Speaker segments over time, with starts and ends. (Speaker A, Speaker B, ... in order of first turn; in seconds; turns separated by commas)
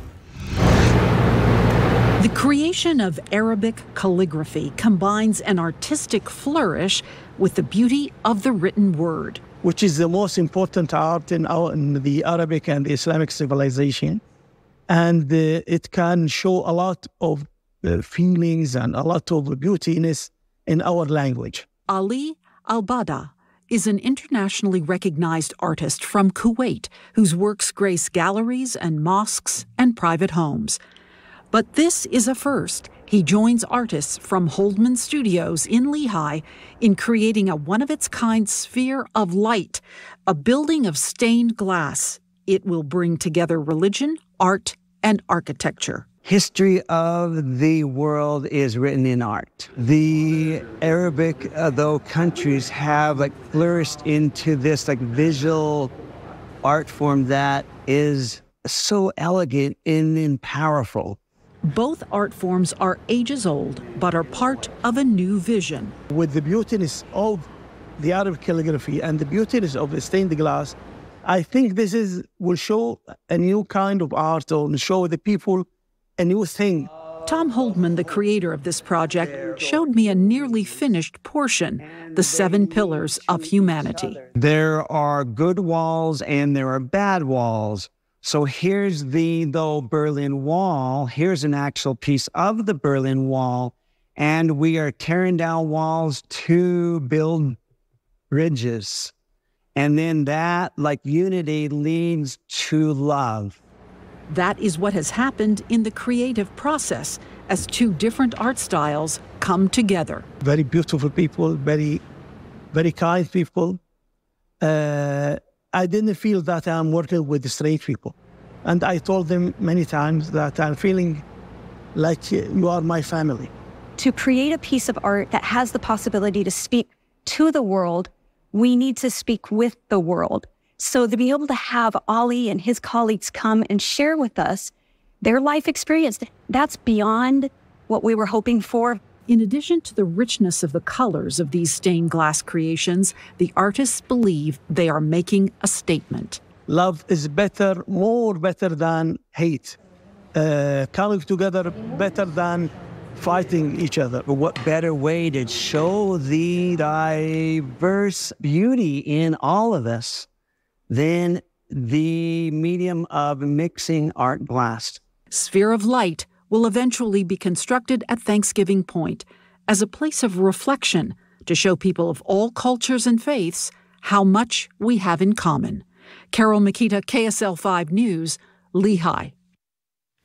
Speaker A: 2.2-9.4, Speaker B: 9.6-14.2, Speaker B: 14.9-21.7, Speaker A: 21.9-30.8, Speaker A: 31.5-46.0, Speaker C: 46.2-55.9, Speaker C: 56.6-61.2, Speaker A: 61.6-66.0, Speaker B: 66.1-75.7, Speaker B: 76.2-76.9, Speaker A: 77.2-84.2, Speaker C: 81.8-97.6, Speaker C: 98.3-99.1, Speaker C: 99.8-103.6, Speaker A: 104.3-110.2, Speaker B: 110.4-112.0, Speaker B: 112.7-113.8, Speaker B: 114.6-121.2, Speaker B: 121.9-123.5, Speaker D: 124.0-139.0, Speaker A: 139.3-146.4, Speaker B: 146.7-149.8, Speaker B: 150.3-154.2, Speaker C: 154.3-160.3, Speaker C: 160.9-165.0, Speaker A: 165.3-179.3